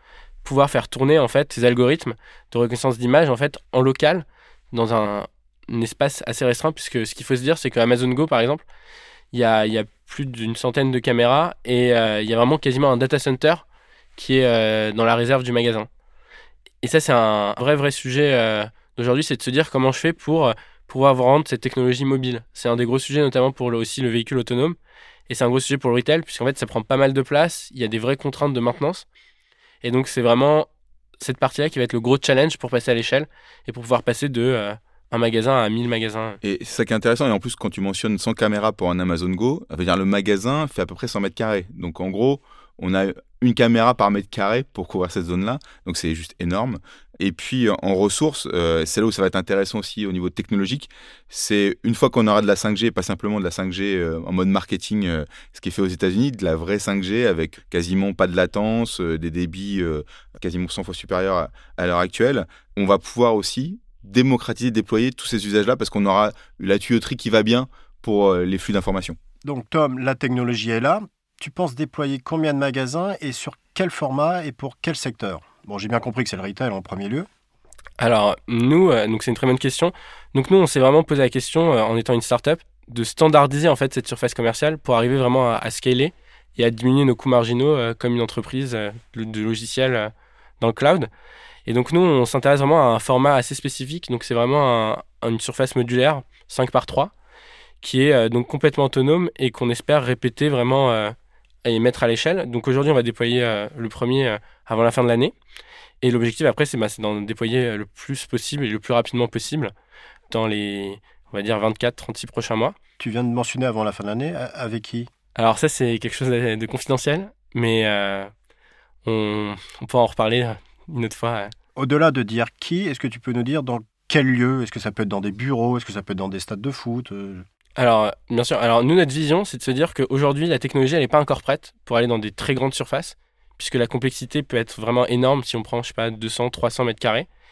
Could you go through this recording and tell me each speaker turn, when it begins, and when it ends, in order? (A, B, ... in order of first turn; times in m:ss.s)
0:00.4-0:08.6 A
0:09.3-0:13.6 A
0:14.2-0:15.9 A
0:16.8-0:24.8 A
0:25.3-0:29.0 A
0:29.8-0:30.7 A
0:31.2-0:36.4 A
0:36.4-1:09.2 B
1:09.4-1:17.3 C
1:18.0-1:31.1 A
1:31.7-1:37.1 A
1:37.8-1:45.3 A
1:46.0-1:49.7 A
1:50.3-1:52.8 A
1:53.0-1:55.1 C
1:55.4-1:58.3 A
1:59.0-2:01.5 A
2:01.8-2:07.4 C
2:07.8-2:17.3 A